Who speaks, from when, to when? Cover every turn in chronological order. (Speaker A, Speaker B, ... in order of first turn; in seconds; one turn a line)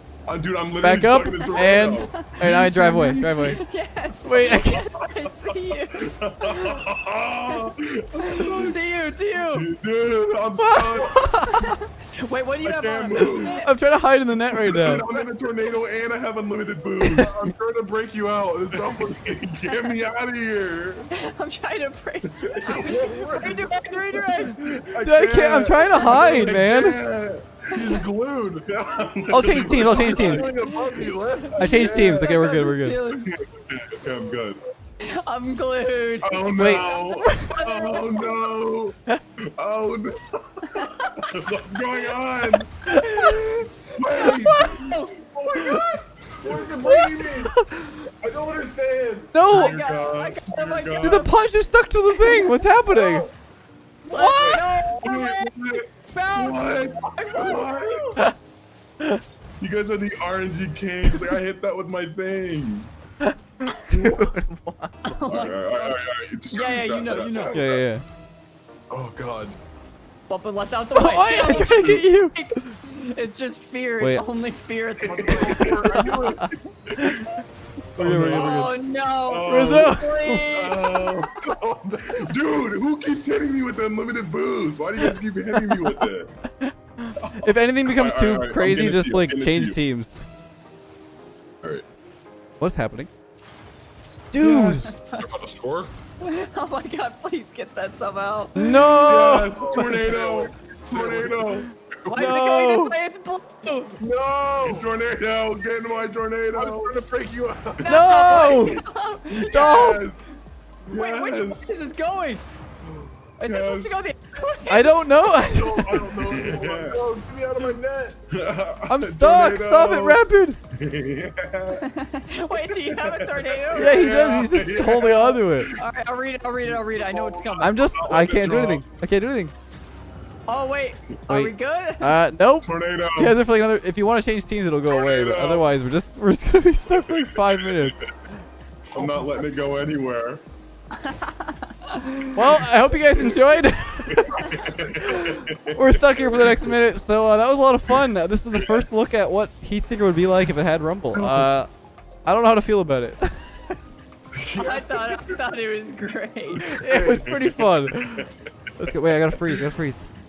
Speaker A: 0.2-3.3
Speaker B: 0.8-3.6
Speaker C: 2.9-3.2
Speaker D: 3.4-6.8
Speaker B: 4.2-4.9
Speaker A: 6.0-8.8
Speaker D: 7.5-9.7
Speaker A: 9.3-11.3
Speaker B: 10.6-11.5
Speaker D: 11.3-13.7
Speaker A: 12.6-13.6
Speaker B: 13.4-15.0
Speaker A: 14.6-17.3
Speaker C: 14.9-15.2
Speaker B: 17.0-17.3
Speaker C: 17.1-19.4
Speaker A: 18.7-21.1
Speaker D: 21.2-24.7
Speaker C: 22.6-23.7
Speaker A: 22.6-23.1
Speaker A: 24.4-27.6
Speaker B: 25.0-27.0
Speaker C: 25.9-26.7
Speaker C: 27.7-28.7
Speaker A: 28.7-30.6
Speaker B: 29.3-30.5
Speaker C: 29.3-32.3
Speaker D: 30.4-33.3
Speaker B: 31.6-33.0
Speaker A: 31.6-32.1
Speaker A: 33.1-34.6
Speaker C: 34.1-34.4
Speaker D: 35.0-38.5
Speaker A: 36.2-39.0
Speaker B: 36.5-37.5
Speaker A: 39.5-42.7
Speaker D: 40.7-41.3
Speaker B: 42.9-43.3
Speaker D: 42.9-45.2
Speaker C: 44.0-47.6
Speaker A: 44.0-44.8
Speaker B: 44.4-44.9
Speaker B: 46.8-48.0
Speaker C: 48.2-49.3
Speaker B: 49.3-49.8
Speaker D: 49.4-51.3
Speaker A: 49.4-51.2
Speaker B: 51.0-53.3
Speaker D: 52.1-52.7
Speaker C: 52.8-53.3
Speaker D: 54.0-55.5
Speaker B: 54.1-54.8
Speaker A: 55.0-58.2
Speaker D: 56.0-58.2
Speaker A: 59.6-62.9
Speaker D: 63.7-64.2
Speaker B: 63.9-65.1
Speaker D: 65.0-67.7
Speaker A: 65.3-67.6
Speaker B: 67.5-68.0
Speaker C: 68.9-69.6
Speaker D: 70.3-76.0
Speaker B: 70.9-72.6
Speaker C: 75.0-76.4
Speaker A: 75.0-77.2
Speaker B: 76.4-77.2
Speaker C: 78.0-78.8
Speaker B: 78.0-78.5
Speaker D: 78.3-81.0
Speaker A: 79.3-81.4
Speaker B: 79.5-80.4
Speaker C: 81.2-82.3
Speaker A: 82.2-86.3
Speaker B: 85.0-86.0
Speaker B: 86.6-90.2
Speaker A: 87.2-89.8
Speaker B: 92.6-93.1
Speaker B: 94.3-95.0
Speaker C: 94.4-95.9
Speaker D: 96.2-98.7
Speaker B: 98.5-99.8
Speaker A: 98.9-101.7
Speaker C: 99.6-102.4
Speaker D: 102.1-104.0
Speaker B: 102.1-102.9
Speaker C: 104.0-104.9
Speaker A: 104.6-107.0
Speaker C: 106.5-108.6
Speaker D: 107.8-110.0
Speaker B: 107.8-108.8
Speaker A: 109.3-110.2
Speaker B: 109.4-110.0
Speaker A: 110.9-111.7
Speaker D: 110.9-112.4
Speaker D: 113.4-115.1
Speaker A: 113.4-114.0
Speaker B: 114.7-116.0
Speaker C: 115.3-118.2
Speaker A: 115.7-117.0
Speaker A: 118.3-120.2
Speaker B: 118.9-120.6
Speaker A: 120.7-121.8
Speaker D: 121.8-124.5
Speaker A: 122.9-125.7
Speaker B: 123.7-125.7
Speaker D: 125.8-128.1
Speaker A: 126.7-128.8
Speaker B: 127.6-129.5
Speaker D: 130.5-132.2
Speaker B: 131.3-138.1
Speaker A: 132.6-133.4
Speaker A: 134.9-135.7
Speaker A: 136.9-138.1
Speaker C: 138.9-139.4
Speaker A: 138.9-140.4
Speaker D: 141.0-142.3
Speaker B: 142.3-144.4
Speaker A: 143.1-143.4
Speaker A: 144.1-146.8
Speaker B: 145.0-151.7
Speaker A: 151.1-151.5
Speaker B: 152.2-153.5
Speaker C: 154.3-155.2
Speaker D: 154.6-156.6
Speaker B: 156.6-158.2
Speaker A: 156.7-158.3
Speaker C: 156.9-157.2
Speaker B: 158.8-160.0